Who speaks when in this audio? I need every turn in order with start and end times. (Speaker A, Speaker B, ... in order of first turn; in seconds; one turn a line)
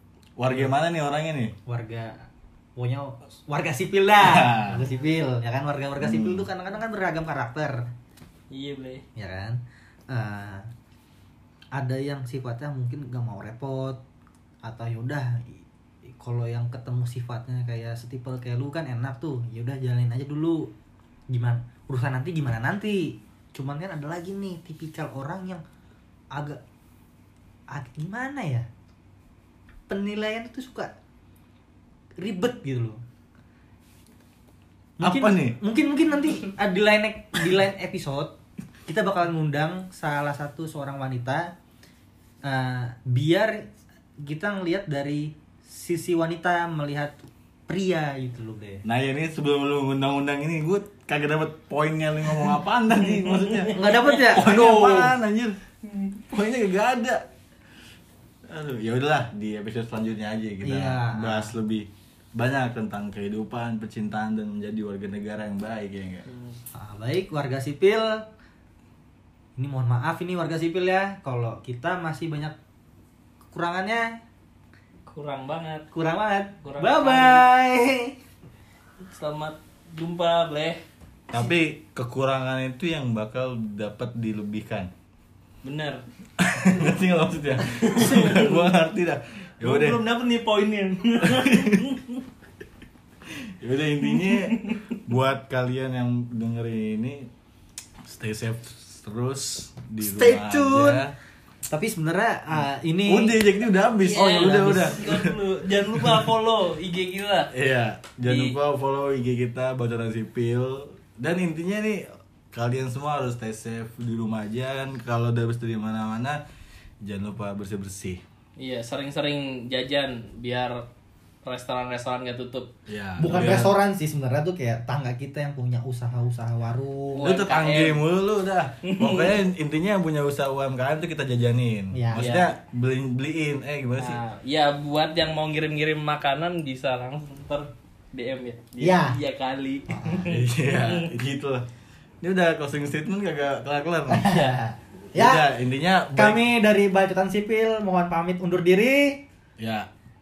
Speaker A: 0.4-1.5
Speaker B: 1.6-7.9
Speaker A: 4.2-4.8
Speaker A: 6.0-6.5
Speaker C: 8.5-9.0
Speaker B: 9.2-10.7
Speaker B: 11.7-14.0
Speaker B: 14.6-20.7
Speaker B: 21.3-25.6
Speaker B: 26.3-26.6
Speaker B: 27.7-28.7
Speaker B: 29.9-30.9
Speaker B: 32.2-33.0
Speaker B: 35.0-38.3
Speaker A: 35.0-35.6
Speaker B: 38.9-41.5
Speaker B: 42.4-48.8
Speaker A: 48.8-55.6
Speaker C: 53.0-54.0
Speaker B: 53.7-55.2
Speaker A: 56.3-57.2
Speaker A: 58.5-66.3
Speaker B: 60.6-61.5
Speaker C: 66.3-66.6
Speaker B: 66.7-68.3
Speaker B: 69.6-72.5
Speaker B: 73.5-74.2
Speaker C: 75.0-75.9
Speaker B: 75.9-78.2
Speaker C: 76.6-77.5
Speaker C: 79.0-80.8
Speaker A: 81.3-84.9
Speaker C: 85.6-86.0
Speaker A: 86.4-90.0
Speaker C: 87.7-88.7
Speaker C: 89.6-92.2
Speaker A: 91.2-91.9
Speaker A: 93.3-97.3
Speaker C: 94.0-94.8
Speaker A: 98.0-101.1
Speaker B: 100.0-101.0
Speaker B: 101.7-103.4
Speaker A: 102.5-106.3
Speaker C: 104.0-107.5
Speaker B: 104.1-105.0
Speaker A: 107.5-116.4
Speaker C: 108.2-108.6
Speaker A: 117.0-118.2
Speaker C: 118.6-120.8
Speaker C: 121.4-122.7
Speaker A: 122.9-123.7
Speaker B: 123.2-127.3
Speaker C: 127.1-128.0
Speaker A: 127.2-134.2
Speaker C: 128.8-129.4
Speaker B: 131.9-132.3
Speaker C: 132.2-132.5
Speaker C: 134.0-141.1
Speaker B: 138.8-139.2
Speaker B: 139.9-140.3
Speaker A: 140.2-141.7
Speaker A: 142.2-144.2
Speaker B: 144.1-145.4
Speaker C: 144.2-144.6
Speaker A: 145.1-146.4
Speaker B: 146.1-149.2
Speaker A: 149.6-149.9